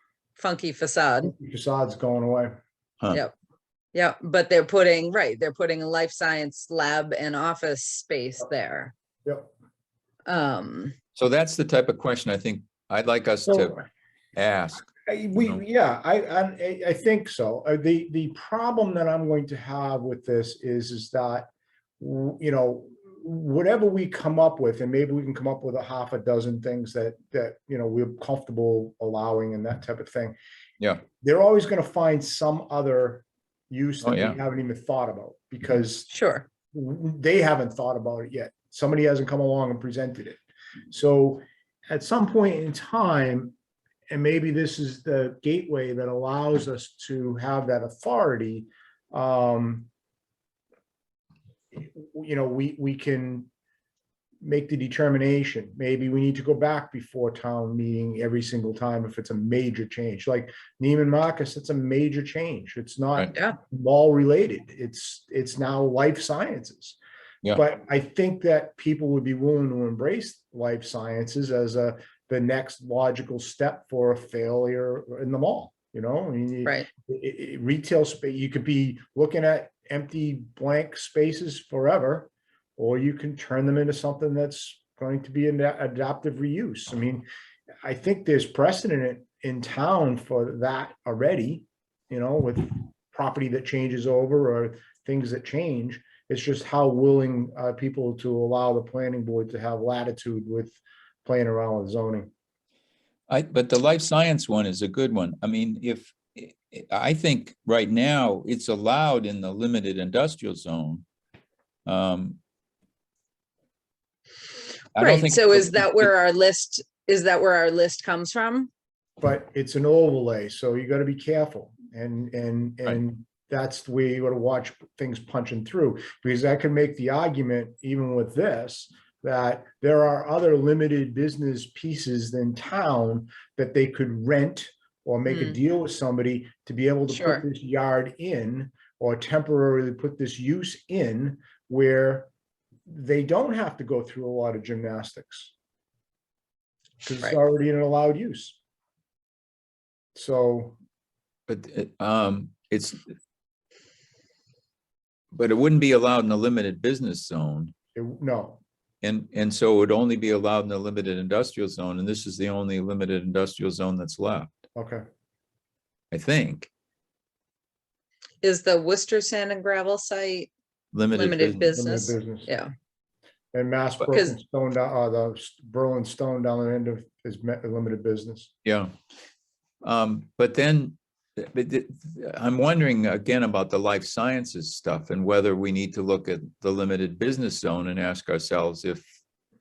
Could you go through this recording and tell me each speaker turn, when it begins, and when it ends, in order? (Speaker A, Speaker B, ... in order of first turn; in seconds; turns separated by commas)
Speaker A: 0.4-1.3, Speaker B: 1.2-2.5, Speaker A: 3.9-8.9, Speaker B: 9.2-9.5, Speaker A: 10.2-10.9, Speaker C: 11.2-15.6, Speaker B: 13.5-13.8, Speaker B: 15.1-30.3, Speaker B: 31.2-36.1, Speaker C: 34.0-34.4, Speaker A: 36.1-36.5, Speaker B: 36.7-40.4, Speaker B: 40.9-43.5, Speaker B: 44.1-49.9, Speaker B: 51.7-53.5, Speaker B: 54.4-67.0, Speaker B: 67.5-87.2, Speaker B: 87.8-102.3, Speaker C: 103.3-111.0, Speaker C: 111.8-112.4, Speaker C: 114.9-116.1, Speaker A: 115.0-118.7, Speaker B: 119.2-142.3, Speaker A: 135.3-135.6, Speaker A: 137.1-137.4, Speaker B: 142.9-145.5, Speaker B: 147.0-148.6, Speaker B: 150.1-150.8, Speaker C: 151.5-153.0, Speaker C: 155.3-157.7, Speaker B: 157.9-158.6, Speaker C: 159.0-164.5, Speaker B: 164.8-165.0, Speaker C: 166.1-166.7, Speaker A: 168.4-170.5, Speaker C: 170.9-171.7, Speaker A: 171.1-172.7, Speaker B: 171.7-172.5, Speaker B: 173.5-178.5, Speaker A: 174.1-174.4, Speaker C: 178.6-178.9, Speaker C: 179.8-189.0